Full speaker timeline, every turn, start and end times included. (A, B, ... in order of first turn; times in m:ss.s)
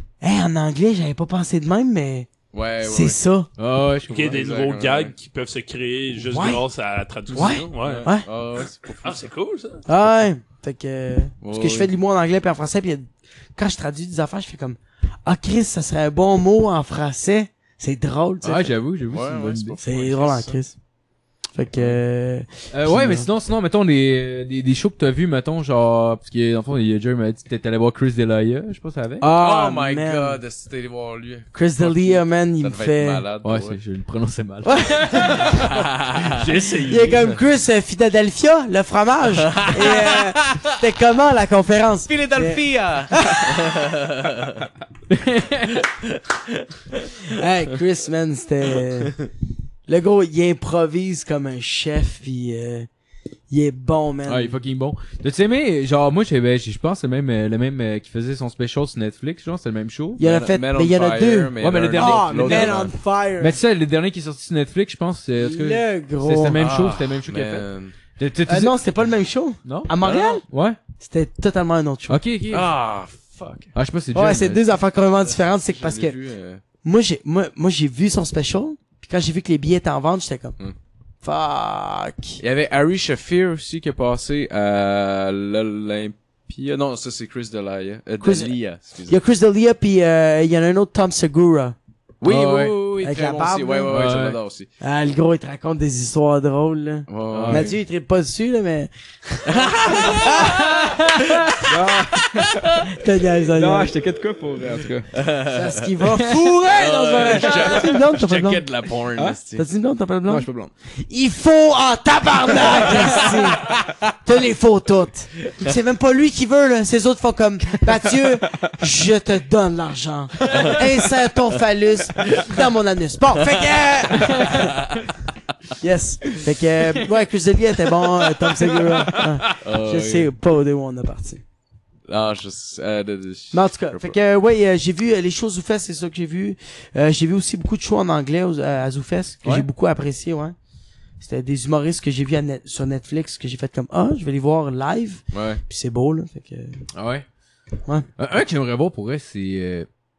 0:00.2-0:02.3 A
0:02.5-0:03.2 B
0:02.8-0:03.5 A
0:03.6-0:04.3 C
0:04.1-0:08.1 D
0:04.2-0:05.1 B
0:06.1-0:06.6 A
0:07.3-0:08.3 A
0:07.4-0:09.3 B
0:09.0-0:09.8 D
0:09.9-0:18.7 A
0:11.4-0:11.9 B
0:18.4-0:19.8 C
0:19.1-0:20.6 B
0:19.8-0:20.8 A
0:21.5-0:23.3 A
0:22.7-0:29.3 C
0:29.2-0:30.4 A
0:29.3-0:33.8 B
0:31.5-0:33.2 A
0:33.4-0:35.5 C
0:34.6-0:35.7 A
0:35.5-0:36.3 B
0:36.3-0:37.2 D
0:36.8-0:42.6 A
0:39.5-0:40.7 B
0:42.1-0:44.6 B
0:45.1-0:45.8 C
0:47.3-0:49.2 A
0:49.9-0:52.9 A
0:53.5-0:54.5 A
0:54.2-1:00.2 C
1:00.2-1:03.6 A
1:00.2-1:02.9 B
1:01.6-1:08.7 C
1:05.4-1:06.6 A
1:06.6-1:08.0 B
1:08.5-1:10.4 A
1:09.6-1:10.8 C
1:11.0-1:12.2 A
1:12.1-1:12.7 C
1:12.5-1:13.7 B
1:13.7-1:14.6 C
1:14.1-1:16.2 A
1:15.2-1:16.6 B
1:16.8-1:20.6 A
1:21.2-1:22.4 A
1:22.4-1:29.2 B
1:28.2-1:28.5 A
1:29.1-1:31.8 A
1:32.2-1:34.7 B
1:32.2-1:32.8 C
1:33.0-1:33.9 A
1:33.9-1:34.4 C
1:34.8-1:41.0 A
1:37.1-1:37.8 B
1:37.3-1:37.7 C
1:39.5-1:40.9 B
1:40.7-1:41.3 C
1:41.6-1:42.7 E
1:42.4-1:42.9 B
1:42.9-1:43.9 A
1:43.5-1:45.1 E
1:45.1-1:45.8 B
1:45.5-1:48.6 A
1:46.7-1:49.6 B
1:47.4-1:47.7 E
1:49.5-1:50.5 A
1:50.3-1:50.7 E
1:51.1-2:04.8 A
1:52.8-1:53.2 B
2:03.6-2:05.0 B
2:04.2-2:04.5 C
2:05.8-2:11.4 A
2:09.6-2:10.3 B
2:12.1-2:14.2 B
2:13.5-2:20.5 A
2:19.4-2:19.7 C
2:21.2-2:26.8 A
2:25.3-2:25.6 B
2:26.9-2:27.2 C
2:28.2-2:29.9 C